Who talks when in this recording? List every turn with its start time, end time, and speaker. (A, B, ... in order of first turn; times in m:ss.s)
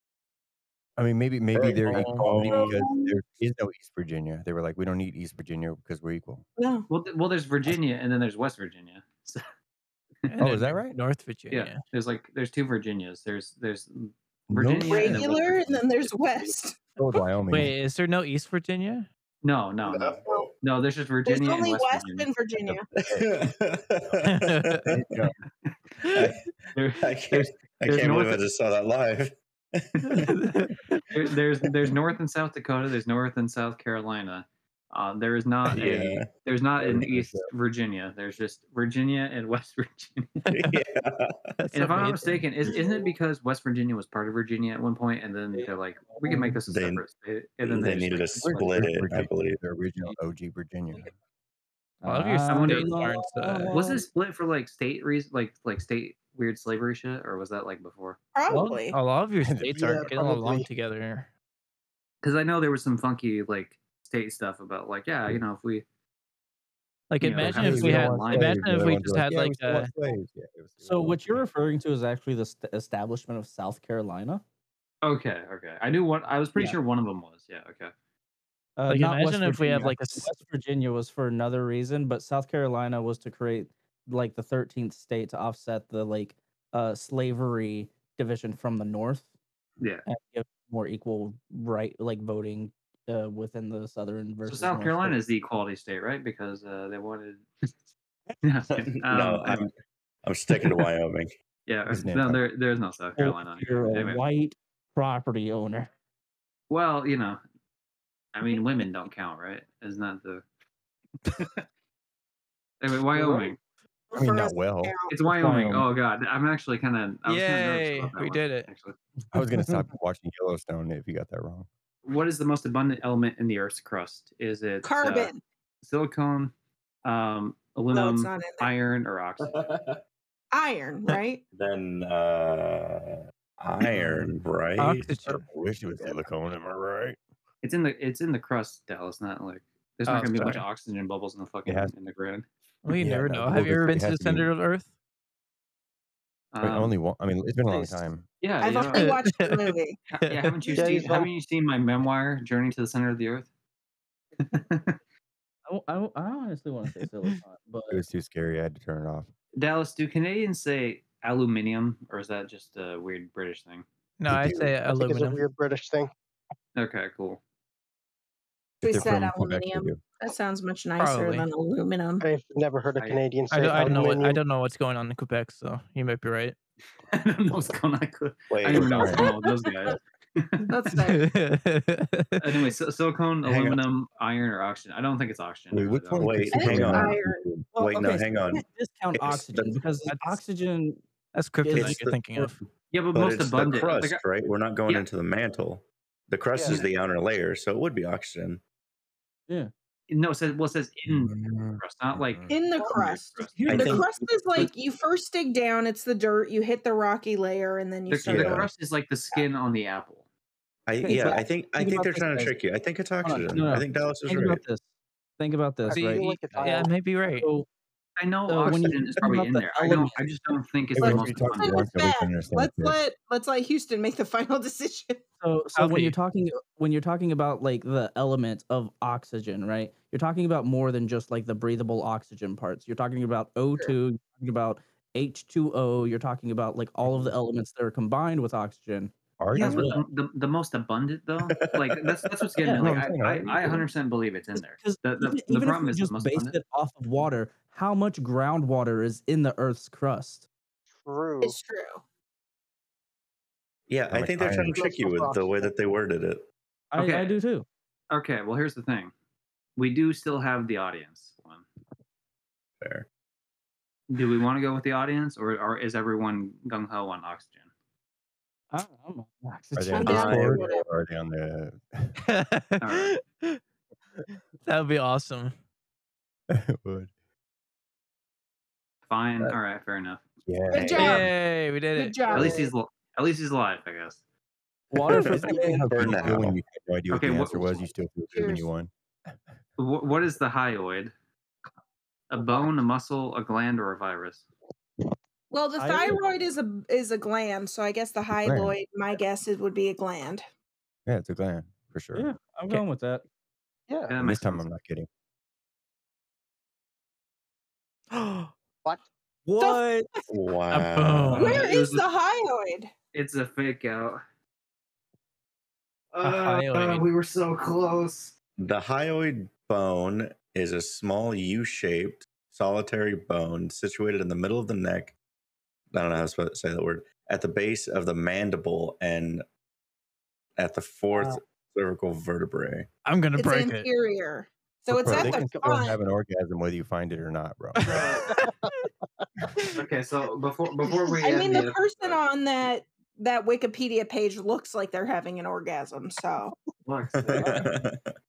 0:01.0-0:06.4 A
0:01.5-0:02.8 B
0:01.9-0:02.5 C
0:02.5-0:03.2 D
0:06.6-0:06.9 D
0:06.9-0:09.4 E
0:10.3-0:11.8 C
0:10.4-0:11.0 A
0:11.5-0:15.6 E
0:14.5-0:15.8 A
0:14.8-0:16.8 D
0:17.0-0:17.8 A
0:17.5-0:19.1 C
0:19.4-0:22.3 E
0:19.8-0:20.5 B
0:21.2-0:22.8 D
0:22.7-0:23.5 A
0:23.1-0:25.0 B
0:24.2-0:24.9 C
0:24.9-0:25.4 A
0:26.0-0:26.3 C
0:26.1-0:26.4 B
0:26.8-0:28.4 E
0:27.0-0:30.3 B
0:30.0-0:31.1 C
0:31.1-0:40.4 E
0:35.7-0:36.3 B
0:36.8-0:37.5 A
0:40.5-0:40.8 C
0:40.5-0:41.5 B
0:41.6-0:42.4 C
0:41.7-0:48.8 E
0:45.5-0:46.6 F
0:46.7-0:47.0 B
0:47.6-0:49.6 B
0:48.4-0:51.1 A
0:52.0-0:54.1 F
0:52.0-0:53.8 C
0:52.5-0:53.0 E
0:53.7-0:58.2 E
0:58.4-0:59.0 D
0:58.5-1:01.3 C
0:59.4-0:59.9 A
0:59.7-1:00.7 G
1:02.2-1:05.8 E
1:07.1-1:09.9 C
1:07.2-1:08.7 E
1:07.3-1:11.4 A
1:10.8-1:14.4 F
1:15.0-1:17.9 E
1:18.8-1:29.3 F
1:18.9-1:20.3 C
1:30.0-1:35.2 F
1:34.5-1:37.7 E
1:38.4-1:39.7 E
1:38.8-1:39.7 B
1:40.2-1:41.3 B
1:41.7-1:44.2 E
1:41.9-1:42.4 A
1:43.2-1:45.9 F
1:46.7-1:47.4 E
1:48.3-1:50.4 E
1:51.3-1:51.6 E
1:52.8-1:53.6 E
1:53.1-1:53.6 F
1:54.1-1:55.1 D
1:54.2-1:55.0 A
1:55.1-1:59.0 E
1:55.4-1:55.8 F
1:57.3-1:58.7 C
1:59.3-2:01.7 A
2:02.0-2:05.3 E
2:04.8-2:05.4 D
2:05.8-2:06.5 E
2:07.0-2:09.7 E
2:07.9-2:08.7 D
2:09.4-2:10.0 B
2:10.5-2:11.4 D
2:11.5-2:15.1 B
2:13.9-2:14.3 A
2:14.0-2:14.2 C
2:14.8-2:15.5 C
2:14.8-2:17.2 A
2:17.6-2:22.5 E
2:20.1-2:20.6 C
2:21.7-2:21.9 A
2:22.8-2:24.9 C
2:22.9-2:24.5 A
2:26.5-2:26.9 E
2:26.6-2:28.3 A
2:28.4-2:29.1 E
2:28.6-2:30.0 D
2:28.9-2:30.8 C
2:30.3-2:33.5 E
2:30.8-2:31.3 G
2:30.8-2:31.1 D
2:34.4-2:35.0 E
2:35.7-2:38.0 F
2:37.9-2:39.3 A
2:39.6-2:43.8 E
2:44.2-2:45.4 C
2:44.3-2:44.8 A
2:44.8-2:46.1 G
2:46.8-2:47.4 E
2:48.8-2:50.0 A
2:48.8-2:52.2 D
2:51.0-2:51.5 C
2:52.2-2:54.4 G
2:53.0-2:53.2 E
2:53.5-2:56.6 C
2:57.1-3:00.7 E
2:58.5-2:59.2 B
2:58.8-2:59.2 A
2:59.1-2:59.9 D
3:00.7-3:01.3 D
3:01.0-3:02.7 C
3:02.4-3:06.4 E
3:03.4-3:03.9 B
3:05.7-3:07.7 A
3:06.2-3:09.8 B
3:06.5-3:07.4 D
3:07.7-3:11.0 F
3:10.1-3:10.4 C
3:11.3-3:12.6 C
3:11.6-3:12.5 F
3:11.7-3:12.2 B
3:12.9-3:14.2 E
3:13.1-3:18.6 B
3:16.5-3:16.8 G
3:16.6-3:16.9 E
3:20.1-3:23.7 E
3:21.1-3:22.6 A
3:22.5-3:28.7 D
3:23.5-3:24.7 F
3:23.6-3:24.1 B
3:28.1-3:30.2 E
3:28.3-3:28.7 A
3:30.9-3:34.6 B
3:31.0-3:32.6 F
3:33.2-3:34.8 F
3:35.4-3:37.7 F
3:35.8-3:36.9 G
3:35.9-3:37.5 C
3:38.2-3:41.8 E
3:38.5-3:41.2 F
3:41.0-3:43.0 A
3:41.0-3:45.2 D
3:45.4-3:59.9 F
3:45.8-3:46.2 C
3:59.4-4:00.0 A
3:59.6-4:06.6 E
4:01.6-4:02.5 B
4:02.6-4:02.9 F
4:02.8-4:03.9 A
4:04.6-4:10.5 F
4:11.0-4:11.6 G
4:11.4-4:12.0 D
4:13.9-4:16.4 B
4:14.1-4:14.8 A
4:14.6-4:15.7 G
4:16.9-4:17.7 F
4:17.0-4:17.4 E
4:18.1-4:19.1 E
4:19.8-4:21.6 E
4:22.8-4:23.1 B
4:24.1-4:27.7 E
4:28.7-4:30.5 F
4:29.8-4:32.1 A
4:29.9-4:30.9 D
4:30.0-4:30.6 B
4:32.2-4:33.6 C
4:32.8-4:33.2 E
4:34.6-4:35.6 C
4:36.5-4:37.1 A
4:39.1-4:40.2 E
4:40.5-4:41.3 A
4:40.7-4:41.3 D
4:40.9-4:42.4 C
4:41.9-4:42.7 D
4:42.3-4:44.2 E
4:44.9-4:46.2 F
4:44.9-4:48.9 A
4:45.9-4:46.6 B
4:47.1-4:47.9 E
4:48.3-4:48.7 D
4:49.8-4:51.1 E
4:52.3-4:54.4 E
4:55.5-5:00.5 D
4:55.8-4:56.2 F
4:58.3-4:58.8 A
5:01.1-5:02.3 A
5:02.1-5:03.3 F
5:03.9-5:04.1 G
5:04.1-5:04.7 E
5:04.2-5:05.1 A
5:08.2-5:08.5 F
5:09.5-5:10.1 F
5:10.3-5:11.6 B
5:10.7-5:11.6 C
5:11.4-5:12.9 D
5:11.4-5:12.1 E
5:13.1-5:14.2 E
5:16.1-5:18.3 E
5:16.2-5:17.1 C
5:18.6-5:25.2 B
5:25.9-5:29.4 B
5:30.6-5:32.9 B
5:33.0-5:33.9 C
5:33.4-5:36.0 D
5:34.9-5:38.0 A
5:35.1-5:35.6 G
5:37.8-5:38.9 C
5:37.9-5:39.3 G
5:37.9-5:38.2 E
5:39.6-5:39.8 C
5:39.8-5:42.2 E
5:40.9-5:41.1 G
5:41.2-5:46.5 D
5:46.8-5:47.7 E
5:47.2-5:48.1 B